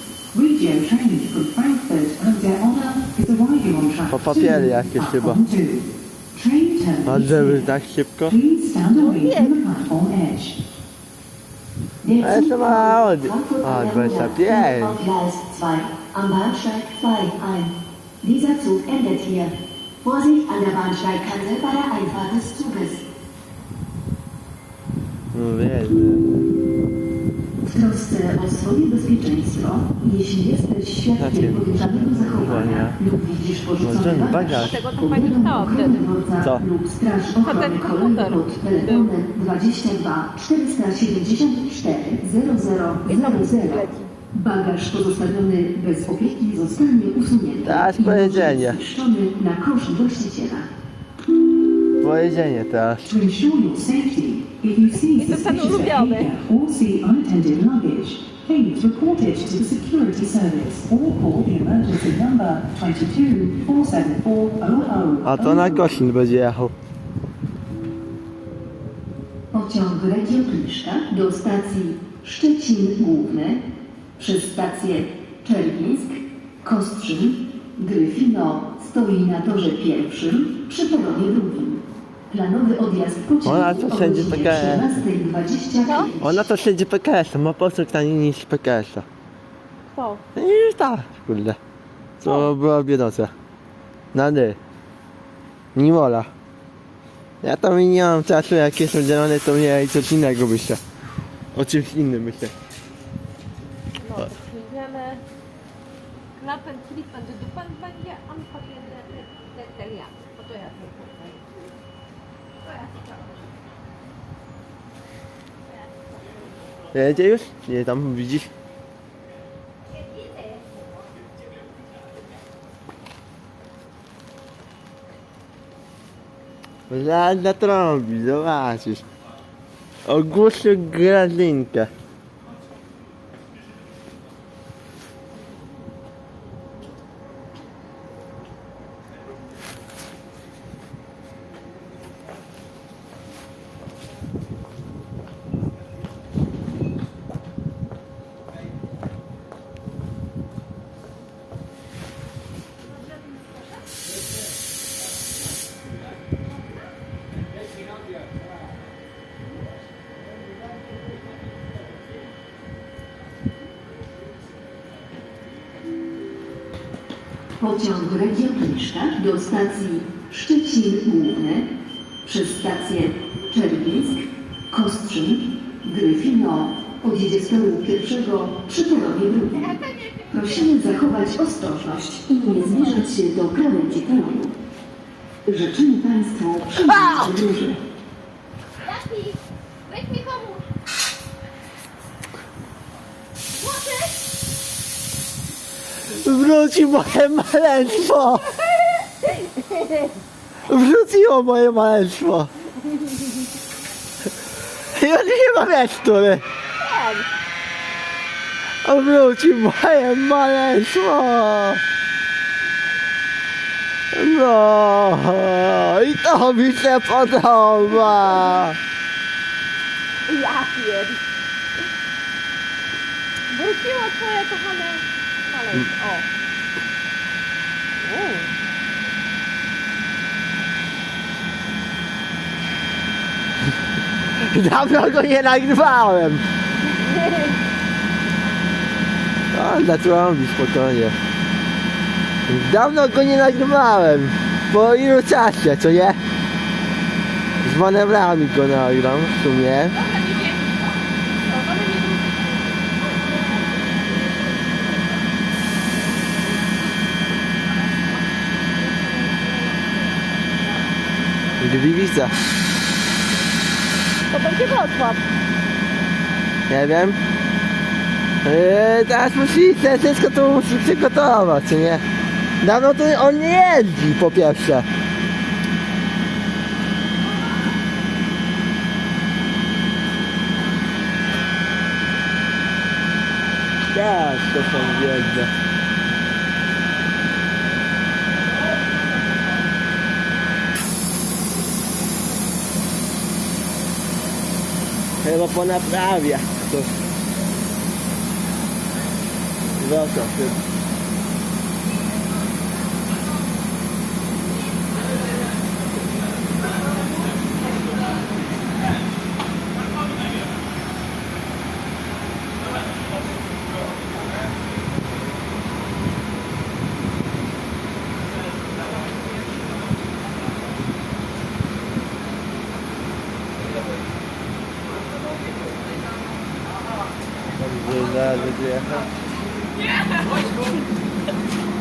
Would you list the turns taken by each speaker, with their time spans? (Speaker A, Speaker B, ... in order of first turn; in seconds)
Speaker A: 0.3-5.8, 6.4-7.6, 8.3-10.5, 53.2-65.4
Speaker B: 4.1-5.4, 7.0-8.4, 12.2-15.0, 25.3-26.5, 31.2-33.0, 33.8-34.8, 47.6-48.8, 52.0-53.1, 65.2-66.7, 83.4-85.0, 86.2-89.0, 90.3-91.6, 92.2-93.3, 94.1-94.6, 95.7-96.3, 97.4-100.8, 101.5-102.5, 116.9-118.5, 126.9-129.0, 130.1-131.9, 196.1-198.5, 200.7-202.5, 204.9-206.4, 208.8-211.8, 214.1-218.8, 234.4-236.4, 239.5-241.2, 242.5-246.2, 247.6-250.0, 261.6-262.4, 266.7-267.2, 268.4-272.0, 272.6-274.9, 283.9-285.5, 295.2-296.9, 299.8-300.6, 327.6-329.1
Speaker C: 4.6-5.4, 6.8-7.3, 12.0-23.1, 27.6-50.7, 53.1-53.9, 54.5-56.3, 65.1-65.8, 69.5-73.6, 74.2-86.3, 167.6-171.7, 172.2-184.6, 185.4-187.8
Speaker D: 8.9-9.6, 34.5-36.0, 37.4-39.1, 43.0-44.1, 55.1-56.3, 85.8-86.1, 89.9-90.2, 104.0-105.2, 106.3-111.4, 112.8-113.1, 179.6-180.7, 188.8-190.6, 193.5-194.1, 198.5-200.2, 202.9-203.3, 206.8-207.2, 220.3-221.2, 223.5-226.3, 228.0-228.5, 236.8-237.6, 249.9-254.7, 257.4-261.1, 264.2-265.2, 325.3-326.1, 330.0-330.4